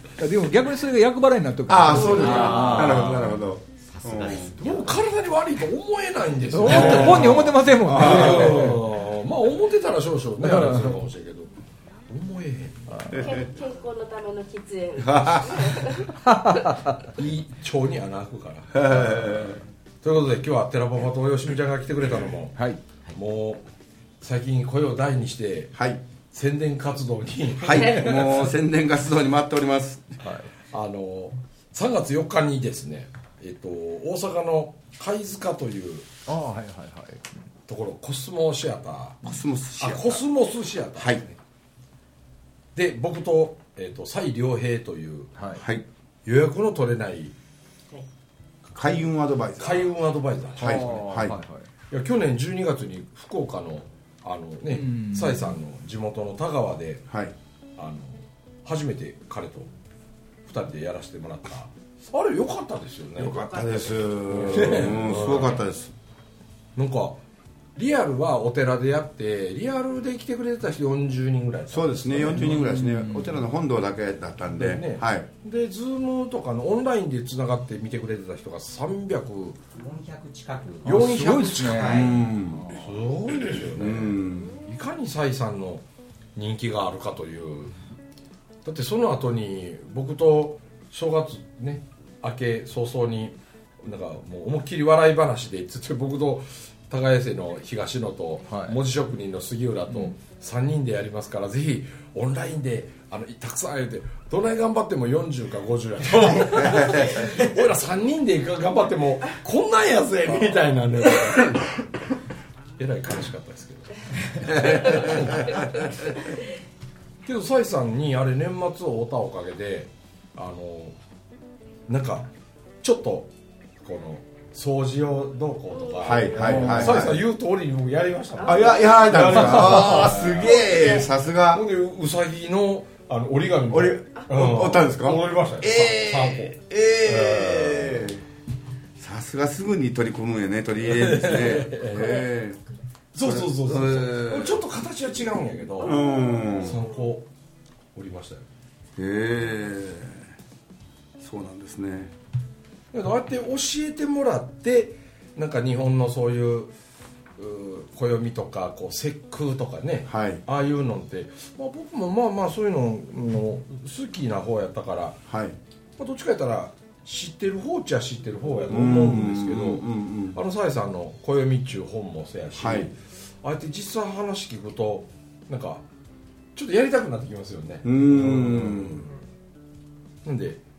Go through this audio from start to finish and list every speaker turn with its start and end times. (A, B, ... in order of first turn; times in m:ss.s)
0:00.2-0:03.3 A
0:01.7-0:04.6 B
0:01.9-0:02.7 C
0:02.2-0:05.1 D
0:04.6-0:11.5 E
0:06.5-0:08.9 A
0:06.7-0:08.6 B
0:10.4-0:10.9 A
0:12.1-0:13.2 E
0:13.1-0:13.5 B
0:13.1-0:16.1 C
0:15.0-0:16.0 B
0:16.3-0:16.7 A
0:17.2-0:23.6 E
0:18.7-0:19.6 B
0:24.2-0:25.8 E
0:25.8-0:26.0 B
0:26.3-0:28.5 E
0:27.6-0:30.1 B
0:27.7-0:28.2 C
0:30.2-0:30.5 A
0:30.7-0:36.1 E
0:36.3-0:37.3 A
0:37.7-0:41.4 E
0:39.2-0:40.2 B
0:41.0-0:41.2 B
0:42.8-0:45.3 E
0:45.4-0:45.6 A
0:45.5-0:45.9 B
0:46.2-0:47.3 E
0:48.8-0:49.9 B
0:49.6-0:51.0 E
0:50.6-0:51.4 B
0:50.6-0:51.6 A
0:51.9-0:57.1 E
0:54.7-0:55.6 A
0:57.8-0:59.7 E
1:00.5-1:05.6 E
1:03.2-1:05.9 B
1:03.2-1:04.5 D
1:06.8-1:07.2 E
1:07.8-1:12.8 E
1:11.7-1:15.3 B
1:12.5-1:13.4 A
1:14.5-1:19.6 E
1:19.7-1:22.2 D
1:20.8-1:22.0 E
1:20.8-1:22.4 A
1:21.9-1:22.9 B
1:22.7-1:25.8 E
1:23.5-1:24.6 B
1:26.4-1:27.7 E
1:28.6-1:51.9 E
1:38.5-1:38.8 A
1:46.6-1:47.2 B
1:52.8-1:55.7 E
1:57.2-2:01.0 E
2:01.9-2:02.3 E
2:02.8-2:03.3 E
2:03.8-2:18.2 E
2:05.9-2:06.3 C
2:06.0-2:07.2 B
2:06.4-2:07.1 A
2:08.4-2:11.6 B
2:08.5-2:09.0 C
2:13.7-2:18.2 B
2:19.0-2:22.6 B
2:20.8-2:22.3 E
2:23.1-2:27.3 E
2:23.2-2:24.6 B
2:25.8-2:26.8 B
2:27.9-2:28.5 E
2:29.0-2:30.3 B
2:31.2-2:32.1 B
2:32.9-2:36.7 E
2:37.4-2:45.2 E
2:40.1-2:40.4 B
2:45.3-2:45.6 B
2:46.0-2:55.8 E
2:48.7-2:50.4 B
2:52.6-2:52.9 B
2:56.6-2:59.2 E
2:57.8-2:59.0 B
3:00.2-3:00.6 E